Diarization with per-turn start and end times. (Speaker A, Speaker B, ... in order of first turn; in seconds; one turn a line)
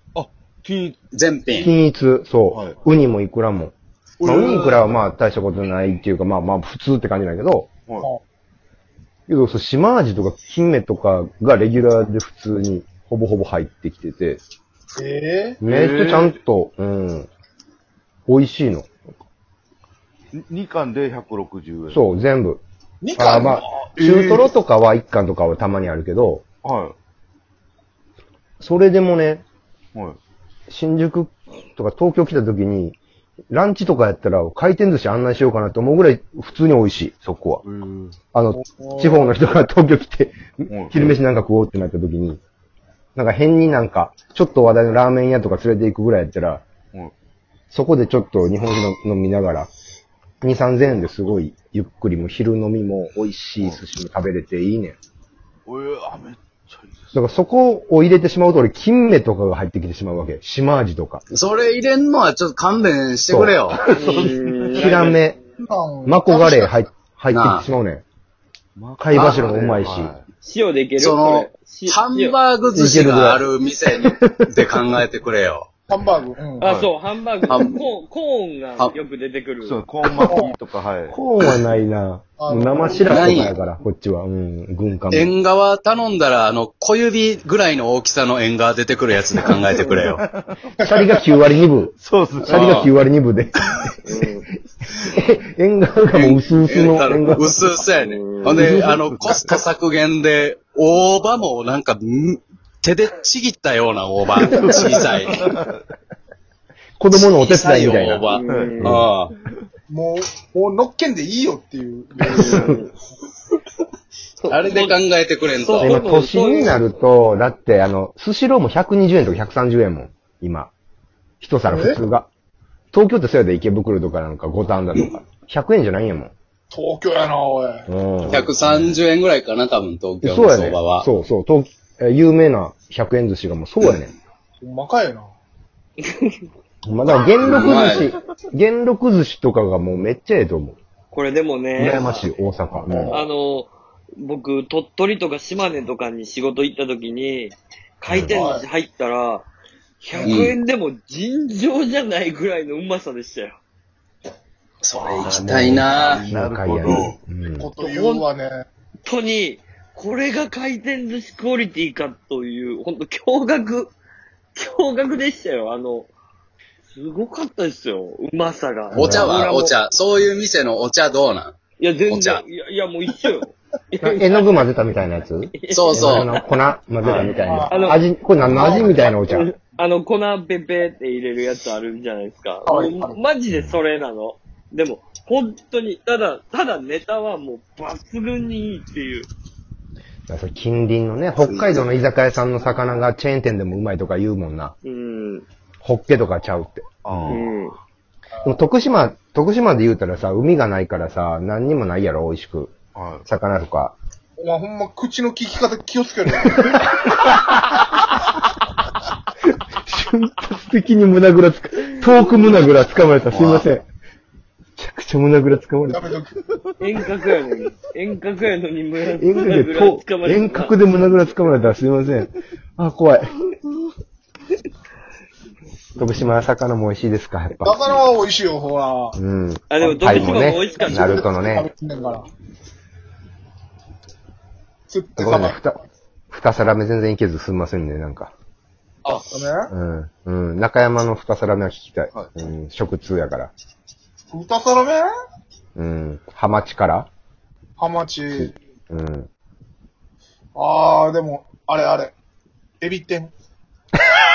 Speaker A: 0.1-1.0
Speaker B: 1.1-1.7
Speaker C: 1.5-7.7
Speaker A: 2.5-2.8
Speaker D: 4.2-4.8
Speaker C: 9.3-14.4
Speaker D: 15.0-15.6
Speaker C: 15.6-17.3
Speaker A: 15.6-16.4
Speaker C: 18.3-18.9
Speaker A: 20.3-22.0
Speaker C: 21.9-22.6
Speaker D: 23.0-23.9
Speaker C: 23.1-26.4
Speaker A: 24.0-24.5
Speaker A: 26.6-26.9
Speaker C: 28.6-29.4
Speaker C: 30.7-33.0
Speaker C: 33.5-37.6
Speaker A: 37.6-38.2
Speaker C: 38.3-42.4
Speaker D: 38.5-39.4
Speaker A: 40.7-41.1
Speaker C: 43.1-46.6
Speaker C: 47.7-49.7
Speaker C: 50.4-55.0
Speaker A: 55.7-57.1
Speaker C: 57.1-61.2
Speaker B: 61.3-63.8
Speaker C: 63.3-63.5
Speaker A: 63.7-65.2
Speaker E: 63.9-65.1
Speaker C: 64.7-65.4
Speaker D: 65.6-66.8
Speaker C: 66.0-68.0
Speaker B: 67.3-67.7
Speaker A: 68.8-70.2
Speaker C: 69.0-70.1
Speaker B: 69.1-69.5
Speaker E: 70.4-72.4
Speaker B: 71.0-75.7
Speaker C: 72.7-73.4
Speaker C: 74.0-75.0
Speaker D: 75.9-76.7
Speaker E: 76.6-79.8
Speaker A: 76.6-76.9
Speaker B: 77.5-77.8
Speaker A: 79.6-81.2
Speaker D: 80.2-80.5
Speaker C: 81.1-85.3
Speaker D: 82.4-83.4
Speaker B: 83.1-83.5
Speaker B: 85.1-90.2
Speaker A: 89.5-90.6
Speaker C: 90.8-93.7
Speaker D: 90.8-91.1
Speaker A: 92.0-92.9
Speaker B: 92.4-92.9
Speaker E: 94.0-94.5
Speaker C: 95.0-97.6
Speaker B: 96.1-105.4
Speaker E: 98.0-98.6
Speaker C: 98.5-99.6
Speaker C: 104.4-105.0
Speaker A: 104.6-105.8
Speaker C: 107.0-109.1
Speaker B: 107.1-109.3
Speaker E: 108.3-109.0
Speaker A: 108.5-108.9
Speaker D: 109.9-112.8
Speaker E: 112.3-112.9
Speaker C: 112.3-112.7
Speaker E: 114.4-115.0
Speaker B: 114.5-115.9
Speaker E: 115.6-116.8
Speaker C: 115.8-120.7
Speaker C: 121.4-122.3
Speaker D: 121.7-122.0
Speaker C: 122.9-126.3
Speaker D: 126.7-127.9
Speaker C: 127.9-129.0
Speaker B: 128.2-131.1
Speaker C: 130.2-134.1
Speaker D: 134.6-135.3
Speaker C: 136.8-140.8
Speaker B: 137.4-138.1
Speaker D: 137.5-137.9
Speaker E: 141.1-142.2
Speaker C: 141.8-143.2
Speaker D: 142.7-143.2
Speaker E: 143.1-149.5
Speaker C: 148.1-148.5
Speaker D: 148.3-148.6
Speaker E: 150.0-153.6
Speaker D: 150.1-150.5
Speaker B: 150.2-150.6
Speaker B: 154.8-156.2
Speaker C: 155.2-157.7
Speaker A: 155.7-157.2
Speaker B: 156.8-157.1
Speaker D: 157.5-158.6
Speaker E: 157.8-158.3
Speaker E: 159.1-163.9
Speaker E: 164.5-166.1
Speaker E: 166.9-169.8
Speaker B: 168.9-171.6
Speaker C: 168.9-169.4
Speaker E: 171.8-174.5
Speaker B: 172.1-172.4
Speaker C: 174.0-179.5
Speaker E: 175.5-176.5
Speaker B: 175.7-176.3
Speaker B: 177.0-177.3
Speaker D: 177.1-177.9
Speaker E: 177.2-189.3
Speaker D: 178.5-179.1
Speaker D: 182.7-183.2
Speaker C: 183.5-183.8
Speaker C: 190.3-194.7
Speaker B: 191.4-191.8
Speaker E: 194.8-195.4
Speaker C: 195.8-197.4
Speaker A: 197.0-197.5
Speaker E: 197.3-197.8
Speaker C: 198.4-203.9
Speaker A: 202.9-203.2
Speaker D: 204.4-206.9
Speaker C: 206.6-207.8
Speaker C: 209.7-213.8
Speaker A: 213.3-213.7
Speaker B: 213.3-213.6
Speaker C: 214.8-216.1
Speaker D: 215.9-216.3
Speaker E: 216.8-220.8
Speaker C: 219.2-223.3
Speaker C: 226.0-227.9
Speaker D: 227.6-229.2
Speaker C: 229.1-231.7
Speaker E: 229.7-231.2
Speaker D: 230.1-232.3
Speaker D: 234.9-235.6
Speaker C: 235.2-238.3
Speaker D: 239.3-239.7
Speaker C: 239.7-243.5
Speaker D: 244.3-245.0
Speaker C: 245.8-247.1
Speaker D: 247.8-248.5
Speaker C: 248.4-249.3
Speaker D: 250.6-252.1
Speaker D: 252.8-253.3